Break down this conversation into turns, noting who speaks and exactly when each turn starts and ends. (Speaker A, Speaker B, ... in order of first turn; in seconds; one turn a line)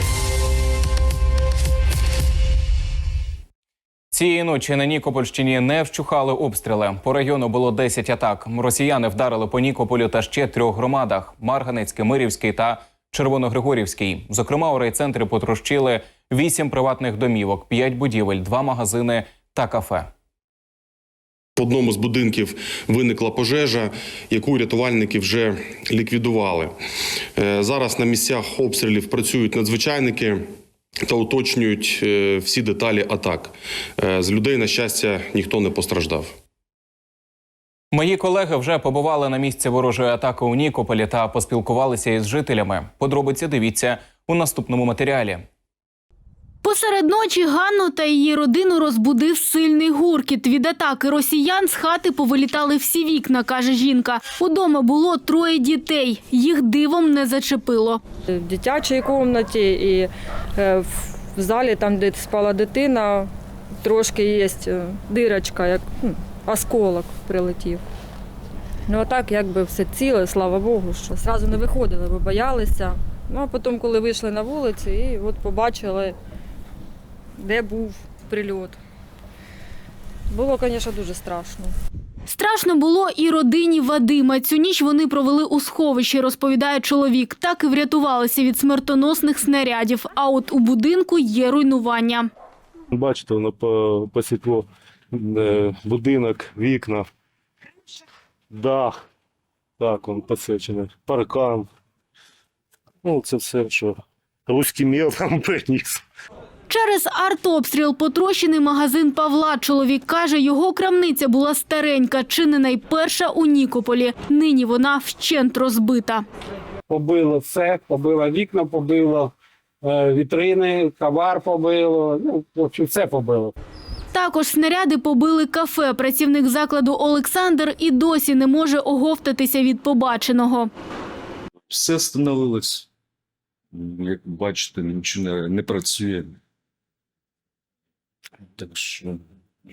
Speaker A: 4.1-20.1
Speaker B: 21.6-26.7
Speaker B: 27.4-30.4
Speaker B: 31.1-36.3
Speaker A: 37.9-45.5
Speaker C: 46.6-58.0
Speaker D: 58.3-63.3
Speaker D: 63.8-67.8
Speaker D: 68.9-76.2
Speaker D: 77.4-78.8
Speaker D: 80.3-81.8
Speaker C: 82.3-92.3
Speaker E: 92.9-97.1
Speaker E: 98.5-99.0
Speaker E: 99.8-101.7
Speaker E: 103.0-106.0
Speaker C: 106.7-116.2
Speaker F: 116.9-123.5
Speaker C: 124.1-130.7
Speaker G: 131.7-132.8
Speaker G: 133.8-136.3
Speaker G: 138.6-139.2